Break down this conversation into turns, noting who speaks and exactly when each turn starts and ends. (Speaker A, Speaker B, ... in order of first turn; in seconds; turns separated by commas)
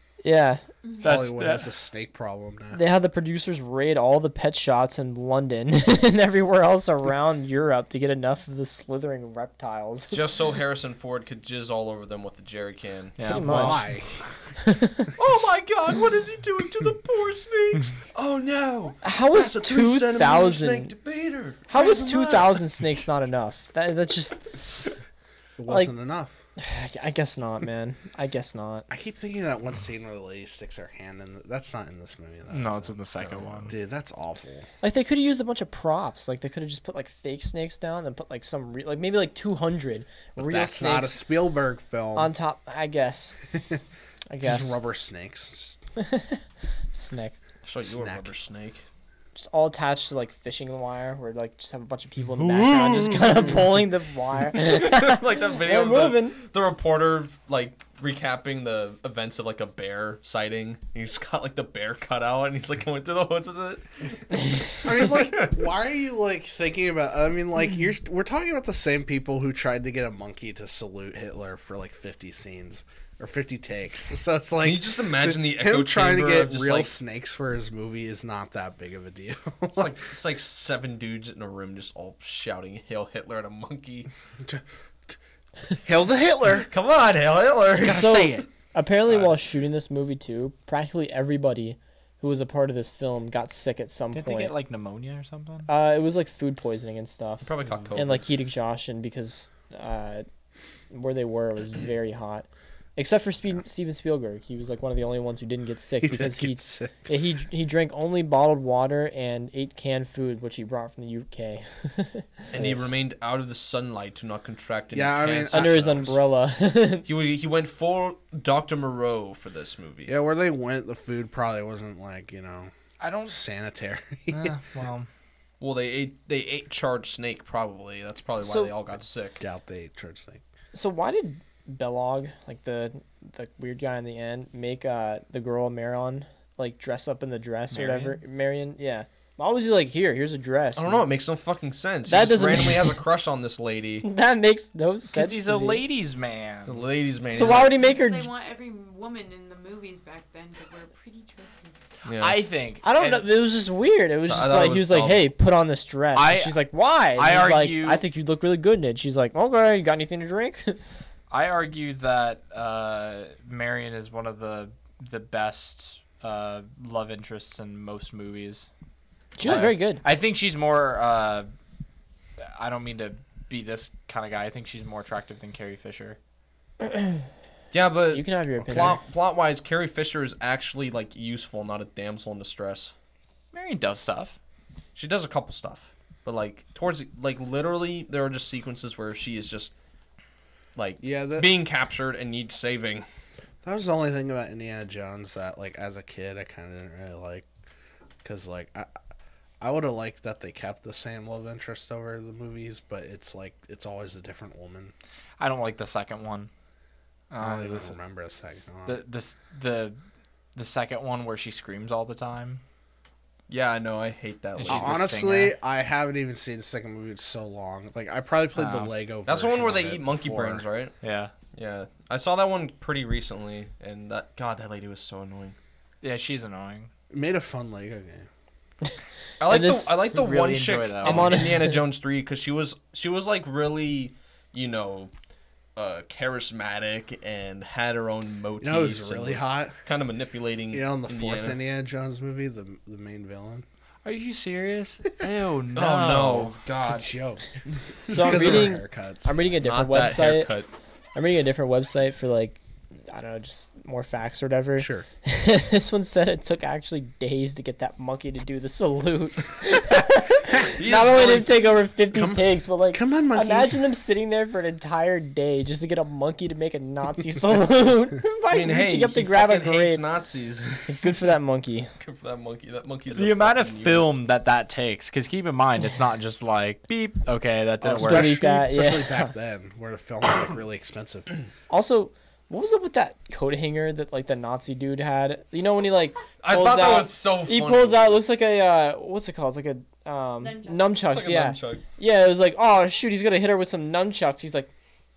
Speaker A: 0.2-0.6, Speaker B: 1.0-1.7, Speaker C: 1.0-2.8, Speaker A: 2.7-10.2, Speaker D: 10.1-13.2, Speaker B: 13.2-13.8, Speaker A: 13.3-13.8, Speaker C: 13.3-14.2, Speaker A: 14.6-15.1, Speaker D: 15.2-22.6, Speaker A: 19.0-20.9, Speaker A: 21.7-24.4, Speaker C: 25.6-26.4, Speaker A: 25.7-25.9, Speaker A: 26.6-28.9, Speaker C: 28.9-33.0, Speaker B: 32.5-33.8, Speaker C: 33.7-34.7, Speaker A: 34.8-41.2, Speaker C: 40.4-42.3, Speaker A: 42.1-43.4, Speaker A: 44.3-44.8, Speaker C: 44.4-45.8, Speaker A: 46.0-47.4, Speaker D: 47.6-48.9, Speaker C: 47.8-48.3, Speaker A: 49.4-56.4, Speaker D: 52.6-53.4, Speaker D: 54.6-63.9, Speaker C: 64.8-79.9, Speaker D: 64.8-65.5, Speaker D: 74.6-76.9, Speaker D: 79.7-84.1, Speaker C: 85.8-86.7, Speaker D: 86.5-88.2, Speaker B: 87.8-88.5, Speaker A: 87.9-94.5, Speaker B: 94.1-95.7, Speaker A: 95.7-100.2, Speaker D: 97.4-98.2, Speaker A: 100.9-112.5, Speaker C: 106.0-107.1, Speaker D: 112.5-116.1, Speaker C: 114.9-116.2, Speaker A: 115.5-117.1, Speaker D: 117.0-120.1, Speaker C: 120.1-122.7, Speaker B: 123.0-123.4, Speaker C: 123.3-124.5, Speaker B: 124.3-125.1, Speaker D: 125.6-129.4, Speaker A: 128.4-128.7, Speaker C: 129.4-130.4, Speaker A: 130.7-141.1, Speaker B: 137.7-138.2, Speaker D: 140.8-144.1, Speaker A: 142.1-143.0, Speaker A: 144.0-145.8, Speaker B: 145.1-146.8, Speaker D: 146.7-147.8, Speaker A: 147.3-148.3, Speaker E: 147.4-151.9, Speaker D: 152.1-152.4, Speaker B: 152.2-153.3, Speaker A: 152.8-160.8, Speaker D: 154.3-155.2, Speaker B: 156.2-156.6, Speaker B: 157.2-158.0, Speaker B: 161.3-168.7, Speaker A: 169.4-170.0, Speaker B: 169.4-171.5, Speaker B: 172.4-176.2, Speaker A: 176.8-177.2, Speaker D: 177.7-182.9, Speaker A: 178.1-179.0, Speaker B: 183.5-184.4, Speaker D: 184.9-189.7, Speaker D: 190.8-193.1, Speaker C: 191.0-191.5, Speaker C: 193.6-197.5, Speaker C: 198.2-198.9, Speaker C: 199.6-204.9, Speaker B: 205.4-206.5, Speaker B: 207.3-208.0, Speaker C: 207.4-209.0, Speaker B: 208.9-210.0, Speaker B: 210.6-212.6, Speaker D: 213.5-215.0, Speaker B: 214.6-215.6, Speaker C: 214.7-220.7, Speaker B: 218.6-218.9, Speaker D: 219.3-220.9, Speaker B: 221.0-221.3, Speaker D: 221.5-225.6, Speaker B: 226.0-226.9, Speaker C: 227.1-228.3, Speaker D: 229.4-235.1, Speaker A: 229.4-229.9, Speaker B: 230.1-231.4, Speaker A: 231.0-231.8, Speaker D: 235.8-241.6, Speaker C: 238.6-239.7, Speaker C: 240.7-243.7, Speaker B: 244.1-246.6, Speaker D: 245.8-247.1, Speaker C: 246.8-247.4, Speaker C: 248.0-249.3, Speaker A: 248.1-250.5, Speaker D: 248.2-248.7, Speaker D: 249.6-250.7, Speaker A: 251.2-270.0, Speaker C: 254.8-255.1, Speaker D: 260.5-261.6, Speaker C: 262.1-263.8, Speaker D: 268.5-270.9, Speaker A: 270.9-271.9, Speaker D: 272.0-274.2, Speaker B: 273.1-278.4, Speaker C: 277.8-281.3, Speaker A: 278.0-279.3, Speaker A: 281.7-294.7, Speaker D: 286.4-288.2, Speaker E: 290.4-291.1, Speaker D: 291.1-291.8